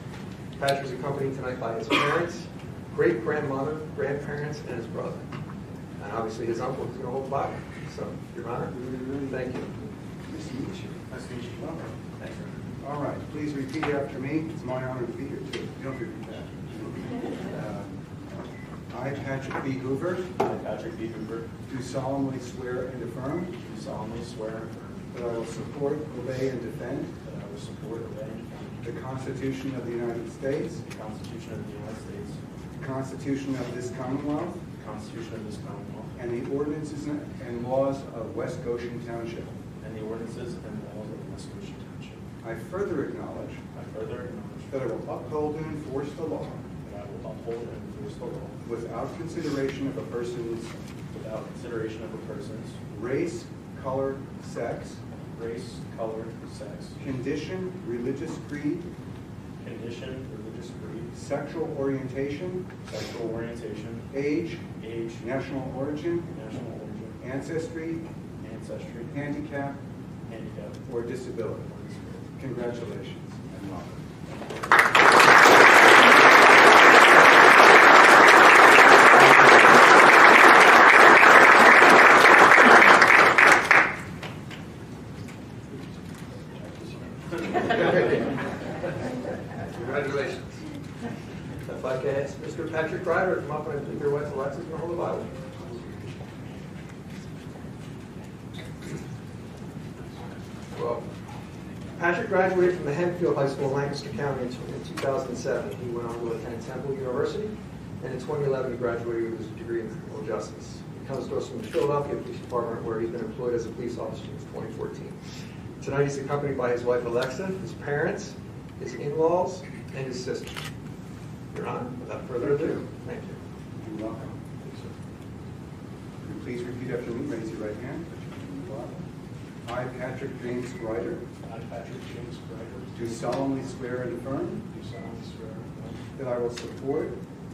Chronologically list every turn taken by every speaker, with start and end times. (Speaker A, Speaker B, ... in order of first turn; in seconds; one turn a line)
Speaker A: 0.6-5.3
Speaker A: 6.0-8.8
Speaker B: 8.7-9.4
Speaker A: 9.3-9.7
Speaker B: 10.3-10.9
Speaker C: 11.1-12.5
Speaker B: 12.8-20.3
Speaker C: 20.4-21.5
Speaker B: 21.7-23.6
Speaker C: 23.6-25.1
Speaker B: 25.1-27.1
Speaker C: 27.2-28.8
Speaker B: 28.8-30.8
Speaker C: 30.9-32.4
Speaker B: 32.8-34.6
Speaker C: 34.8-36.1
Speaker B: 36.2-39.6
Speaker C: 39.8-42.2
Speaker B: 42.4-43.6
Speaker C: 43.7-44.7
Speaker B: 44.7-46.7
Speaker C: 46.8-48.6
Speaker B: 48.6-50.8
Speaker C: 51.1-52.8
Speaker B: 52.9-55.0
Speaker C: 55.3-57.0
Speaker B: 57.0-58.9
Speaker C: 59.6-61.1
Speaker B: 61.1-62.8
Speaker C: 62.9-64.1
Speaker B: 64.1-66.3
Speaker C: 64.8-65.3
Speaker C: 66.3-67.2
Speaker B: 67.2-68.1
Speaker C: 68.4-69.2
Speaker B: 69.1-69.8
Speaker C: 70.3-70.9
Speaker B: 70.9-71.7
Speaker C: 71.7-72.3
Speaker B: 72.4-74.2
Speaker A: 79.2-79.6
Speaker C: 86.6-87.7
Speaker A: 87.7-88.2
Speaker A: 89.6-90.6
Speaker A: 91.7-95.3
Speaker A: 100.7-101.1
Speaker A: 101.9-115.2
Speaker A: 115.8-120.6
Speaker A: 121.5-123.4
Speaker B: 123.8-124.4
Speaker D: 124.6-125.0
Speaker B: 126.2-129.1
Speaker B: 129.7-131.3
Speaker D: 131.4-133.0
Speaker B: 132.9-134.7
Speaker D: 134.7-136.1
Speaker B: 136.2-137.2